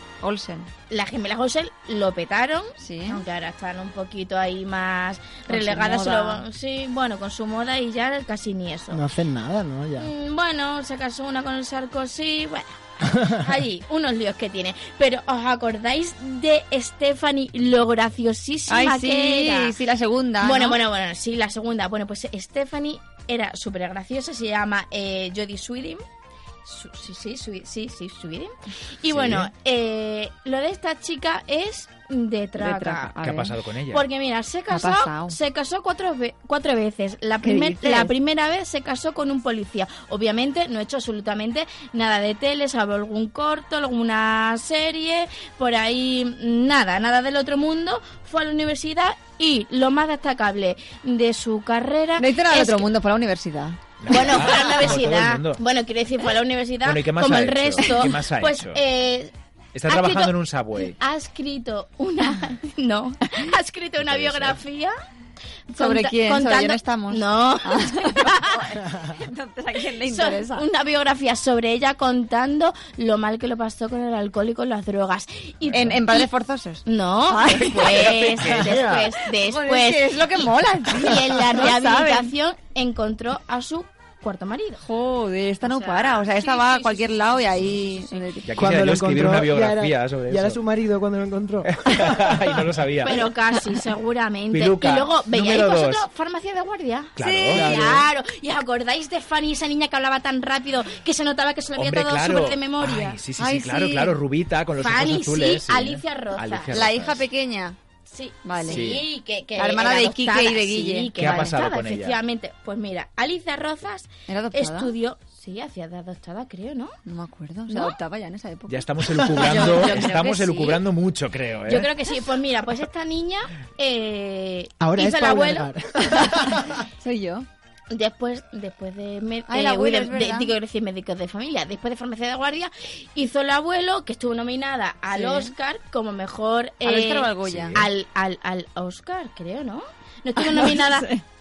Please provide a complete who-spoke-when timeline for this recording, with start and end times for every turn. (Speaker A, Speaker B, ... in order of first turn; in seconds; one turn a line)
Speaker A: 0.2-0.7
Speaker B: 0.9-9.0
Speaker A: 2.8-3.2
Speaker A: 5.5-6.4
Speaker C: 8.9-10.1
Speaker B: 10.0-19.7
Speaker C: 13.1-13.4
Speaker A: 18.7-20.8
Speaker B: 20.4-26.0
Speaker B: 26.6-33.1
Speaker D: 29.1-29.5
Speaker A: 32.6-33.5
Speaker D: 33.2-34.0
Speaker B: 33.9-52.9
Speaker A: 34.7-35.4
Speaker A: 37.4-38.1
Speaker A: 52.2-53.8
Speaker D: 54.0-55.6
Speaker B: 54.1-59.3
Speaker A: 54.4-54.7
Speaker D: 56.8-58.8
Speaker D: 59.7-61.0
Speaker B: 59.9-60.3
Speaker B: 60.9-64.9
Speaker D: 64.0-64.6
Speaker B: 65.7-68.6
Speaker A: 65.8-70.7
Speaker B: 70.1-76.3
Speaker A: 75.7-82.3
Speaker B: 76.8-84.8
Speaker D: 77.6-78.9
Speaker A: 84.8-88.5
Speaker B: 85.6-88.2
Speaker D: 88.5-90.6
Speaker C: 88.6-92.6
Speaker D: 91.8-93.3
Speaker B: 93.0-103.2
Speaker D: 94.5-96.0
Speaker D: 97.2-97.8
Speaker A: 97.2-97.7
Speaker C: 97.5-98.0
Speaker D: 101.8-107.2
Speaker A: 103.4-104.2
Speaker B: 104.8-106.7
Speaker A: 106.7-107.8
Speaker B: 108.1-117.0
Speaker A: 108.4-108.9
Speaker D: 108.7-109.0
Speaker A: 109.6-111.4
Speaker D: 111.2-112.2
Speaker A: 114.3-114.9
Speaker A: 117.0-120.4
Speaker B: 117.7-118.0
Speaker D: 118.7-121.9
Speaker B: 119.4-120.8
Speaker B: 121.7-125.7
Speaker C: 124.8-126.8
Speaker A: 126.1-127.5
Speaker B: 127.9-141.1
Speaker A: 129.5-130.5
Speaker A: 135.1-135.5
Speaker A: 136.8-137.8
Speaker D: 137.4-137.8
Speaker A: 140.4-141.2